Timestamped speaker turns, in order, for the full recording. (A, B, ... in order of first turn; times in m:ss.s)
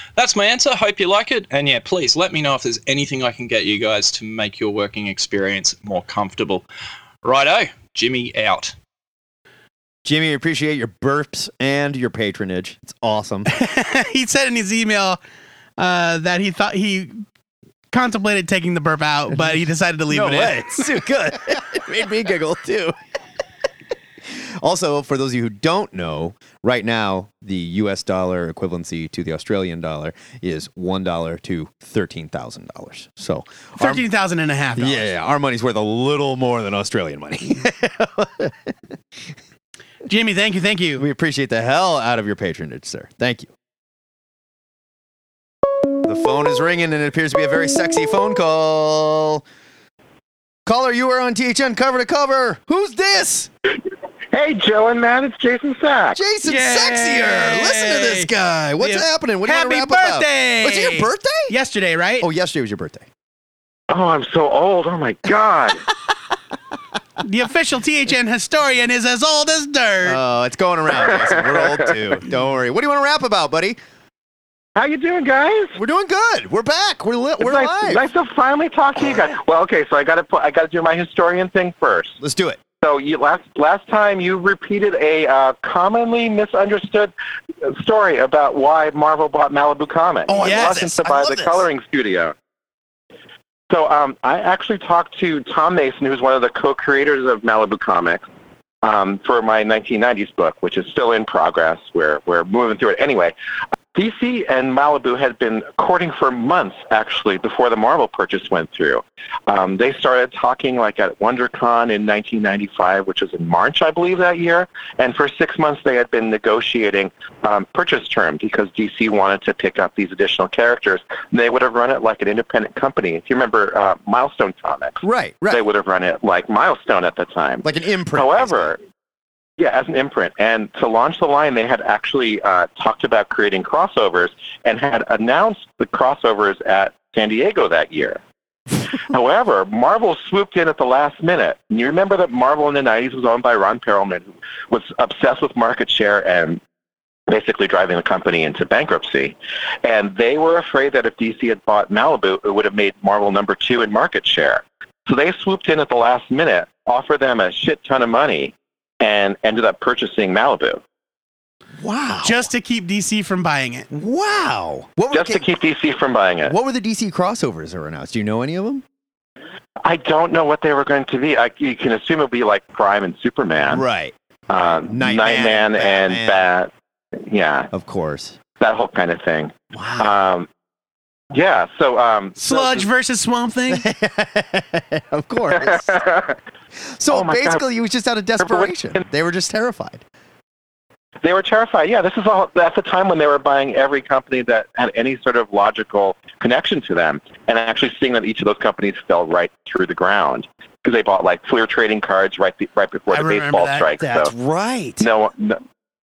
0:00.2-0:06.6 A
0:07.2-0:08.8 A
0:10.0-0:13.5 B
0:13.5-0:15.2 C
0:15.8-0:17.2 C
0:17.9-0:20.9 C
0:20.1-0:23.0 B
0:24.6-0:34.0 B
0:33.8-0:35.1 C
0:34.8-0:38.6 B
0:40.1-0:41.0 C
0:41.0-0:43.5 B
0:46.0-0:49.4 B
0:50.7-0:53.5 B
0:54.3-0:56.2 D
0:56.1-1:01.5 B
0:56.4-1:02.3 C
1:02.2-1:03.1 B
1:03.9-1:05.8 D
1:07.2-1:10.2 C
1:10.0-1:13.8 B
1:11.1-1:11.9 D
1:14.8-1:15.8 D
1:15.8-1:18.0 B
1:17.4-1:22.2 D
1:22.2-1:22.6 B
1:22.8-1:27.1 D
1:27.6-1:32.3 D
1:30.3-1:31.6 B
1:30.4-1:30.7 C
1:33.7-1:38.2 D
1:38.8-1:43.3 D
1:43.9-2:08.8 D
2:05.0-2:05.6 B
2:07.6-2:08.8 B
2:09.6-2:18.2 D
2:19.0-2:26.6 D
2:27.3-2:40.8 D
2:41.8-2:42.5 B
2:42.2-2:43.9 C
2:43.9-2:45.4 B
2:45.1-2:46.5 D
2:46.5-2:48.8 B
2:49.8-2:53.8 D
2:53.7-2:54.1 B
2:54.5-2:57.7 D
2:54.8-2:56.4 B
2:57.7-2:58.4 B
2:58.6-3:00.5 D
2:59.7-3:00.1 B
3:01.3-3:02.9 D
3:02.4-3:03.9 C
3:03.7-3:06.0 B
3:05.6-3:06.4 D
3:07.0-3:10.0 B
3:07.1-3:07.6 D
3:08.4-3:09.0 D
3:11.2-3:24.3 D
3:23.1-3:23.9 C
3:24.0-3:25.1 B
3:25.0-3:25.6 D